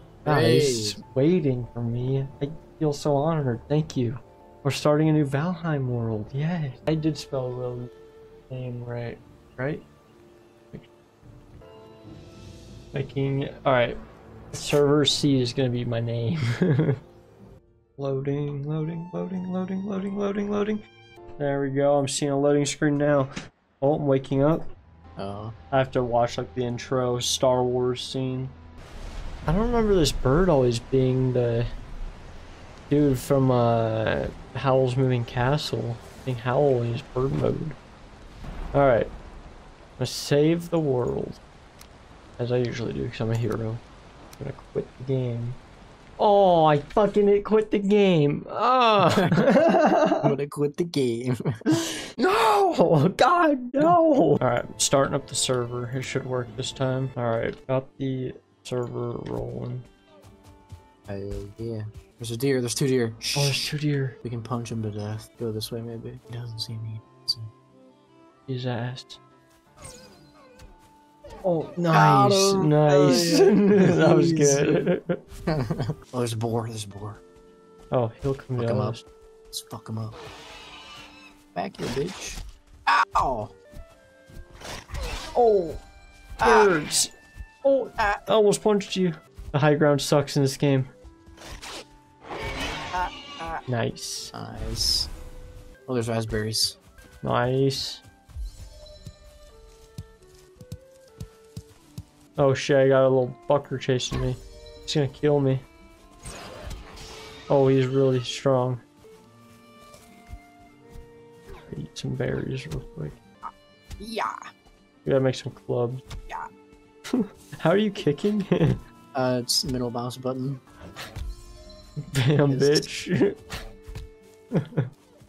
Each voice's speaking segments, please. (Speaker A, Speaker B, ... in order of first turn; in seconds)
Speaker A: 0.2-1.0, 25.2-25.6, 49.1-49.4, 50.2-51.4, 61.1-63.6, 64.2-67.5, 71.9-74.9, 75.5-77.2, 78.6-79.0, 79.5-80.2, 81.5-83.5, 86.4-86.7, 88.0-88.3, 92.9-93.6, 94.3-95.1, 95.9-96.8, 114.0-114.4, 119.1-120.6, 122.5-122.9
Speaker B: 0.3-7.9, 8.5-9.8, 12.9-14.0, 14.5-17.0, 18.0-20.8, 21.4-24.7, 25.7-28.5, 29.5-31.7, 32.9-37.8, 38.7-39.1, 40.0-41.4, 42.4-43.8, 44.4-45.6, 46.2-50.3, 51.7-59.9, 63.4-64.2, 68.5-69.2, 71.4-75.2, 77.9-79.0, 85.3-85.8, 86.4-87.1, 87.6-90.9, 93.7-94.3, 97.2-98.0, 102.4-105.6, 107.5-108.8, 111.7-113.2, 115.0-116.0, 117.1-118.8, 122.1-123.4, 124.6-124.8